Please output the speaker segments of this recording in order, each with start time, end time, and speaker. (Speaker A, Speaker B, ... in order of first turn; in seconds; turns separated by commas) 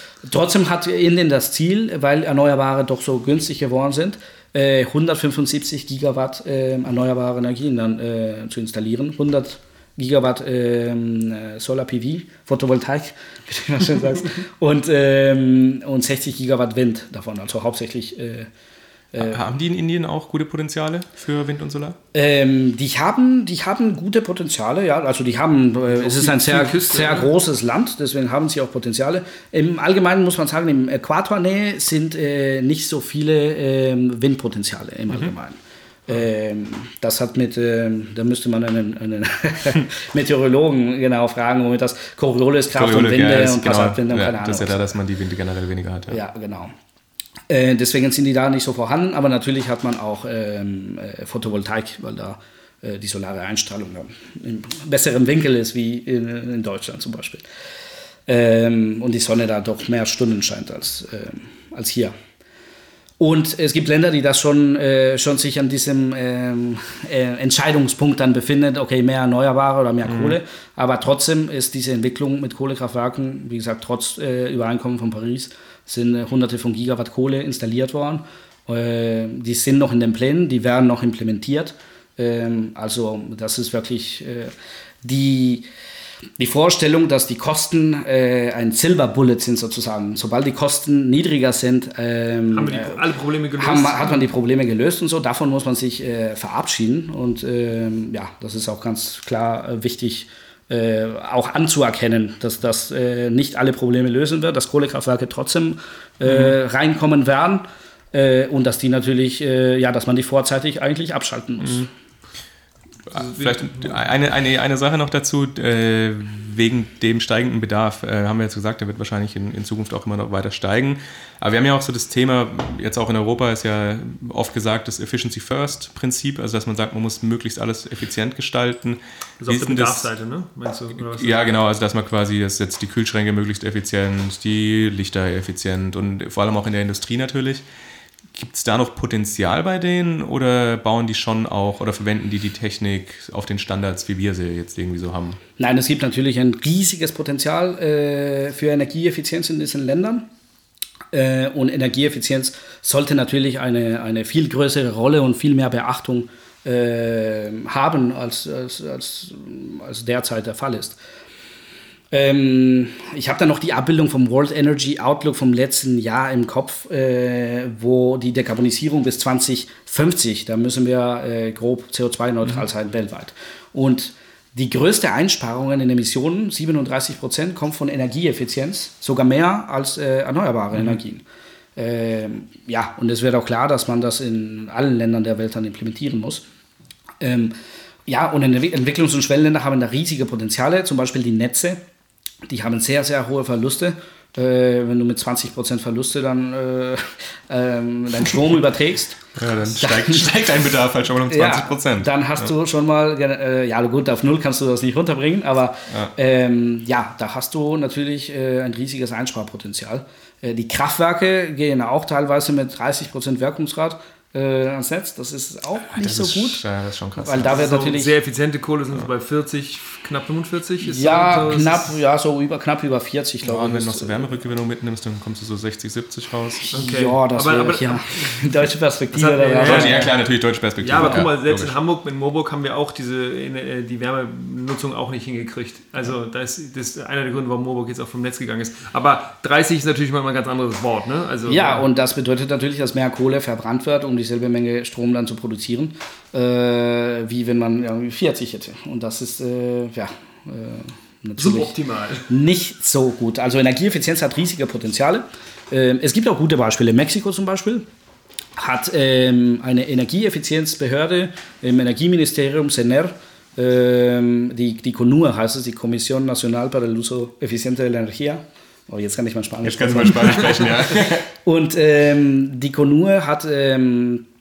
Speaker A: 0.2-18.5, Speaker A: 19.1-19.4, Speaker B: 19.2-22.0, Speaker A: 22.1-44.9, Speaker C: 26.0-27.3, Speaker B: 42.8-46.2, Speaker A: 46.1-46.7, Speaker A: 47.5-57.5, Speaker A: 58.3-62.1, Speaker A: 63.2-85.7, Speaker A: 86.4-93.0, Speaker C: 92.5-94.2, Speaker A: 93.6-111.9, Speaker B: 113.1-130.1, Speaker C: 113.2-113.9, Speaker C: 129.4-131.5, Speaker B: 131.1-137.6, Speaker B: 138.3-145.4, Speaker A: 145.6-150.3, Speaker A: 151.1-161.0, Speaker A: 162.1-181.2, Speaker A: 181.8-186.4, Speaker A: 187.2-187.6, Speaker A: 188.1-191.8, Speaker A: 192.5-200.3, Speaker B: 199.4-202.5, Speaker A: 201.3-216.7, Speaker B: 215.9-217.7, Speaker A: 217.2-218.1, Speaker C: 217.4-222.0, Speaker A: 220.8-224.5, Speaker B: 223.4-226.7, Speaker A: 226.7-230.0, Speaker C: 226.7-228.4, Speaker C: 229.1-230.2, Speaker B: 229.6-231.7, Speaker C: 230.8-241.8, Speaker A: 241.5-251.8, Speaker C: 251.4-252.3, Speaker A: 252.3-257.9, Speaker A: 258.6-274.2, Speaker B: 269.6-271.3